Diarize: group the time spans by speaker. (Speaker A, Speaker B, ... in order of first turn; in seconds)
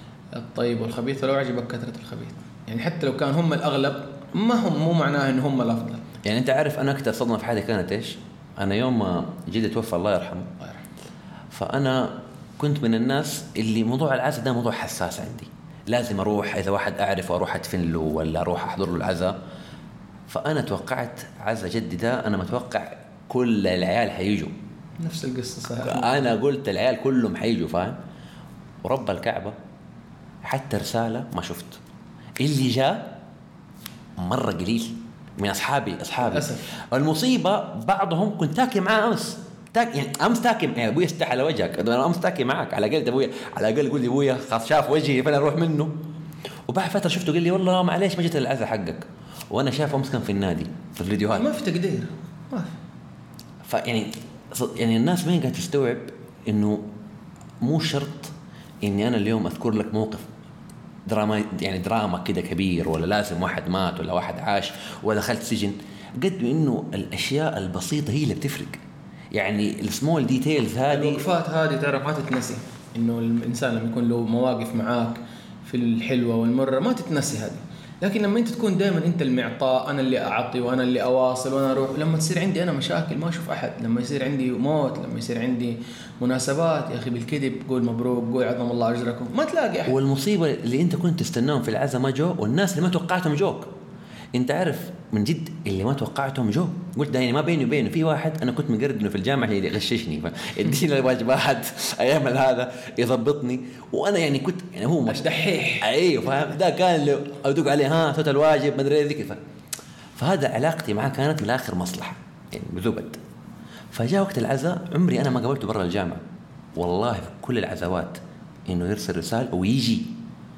Speaker A: 0.3-6.0, 25.0-26.3, 36.3-36.7, 51.3-52.7, 70.9-90.0, 105.1-105.8
Speaker B: 6.2-10.6, 11.5-19.4, 20.3-24.5, 25.8-28.0, 28.8-29.6, 30.4-31.8, 32.4-33.1, 34.2-45.9, 46.7-51.5, 53.6-56.9, 57.6-60.3, 61.1-68.8, 69.3-71.3, 89.9-93.7, 94.3-105.3, 105.8-109.4, 110.2-113.2, 113.9-116.2, 116.8-120.1